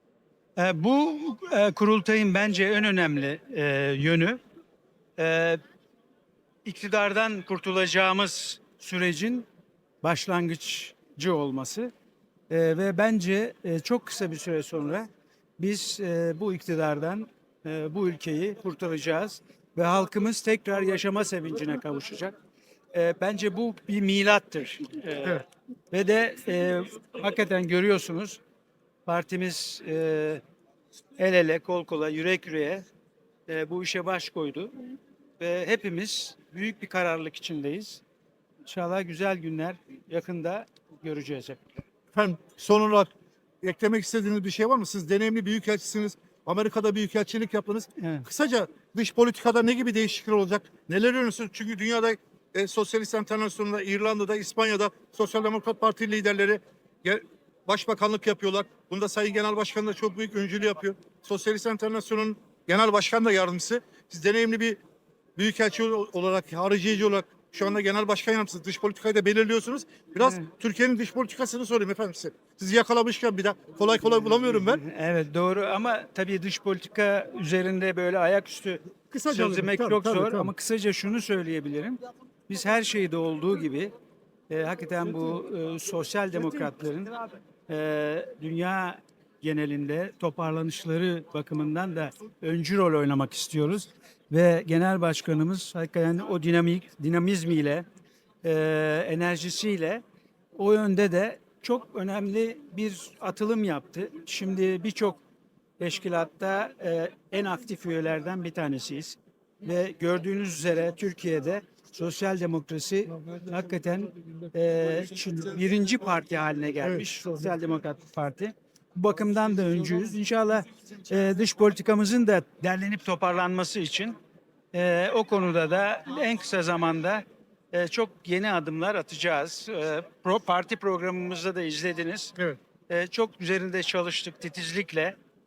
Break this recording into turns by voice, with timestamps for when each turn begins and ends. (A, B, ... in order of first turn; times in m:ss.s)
0:00.6-0:04.4 A
0:05.2-0:05.6 A
0:06.6-0:09.5 A
0:10.0-0:11.9 A
0:12.5-0:22.3 A
0:22.9-0:28.4 A
0:29.1-0:30.4 A
0:31.2-0:32.8 A
0:33.5-0:34.7 A
0:35.4-0:38.0 A
0:38.6-0:41.6 A
0:42.1-0:43.1 B
0:43.6-1:04.8 B
0:48.0-0:48.3 A
1:05.4-1:14.8 B
1:10.2-1:10.5 A
1:14.5-1:23.9 A
1:19.1-1:20.5 B
1:24.5-1:37.8 A
1:38.4-1:40.0 A
1:40.6-1:45.2 A
1:45.8-2:04.2 A
2:04.7-2:12.3 A
2:12.9-2:15.2 A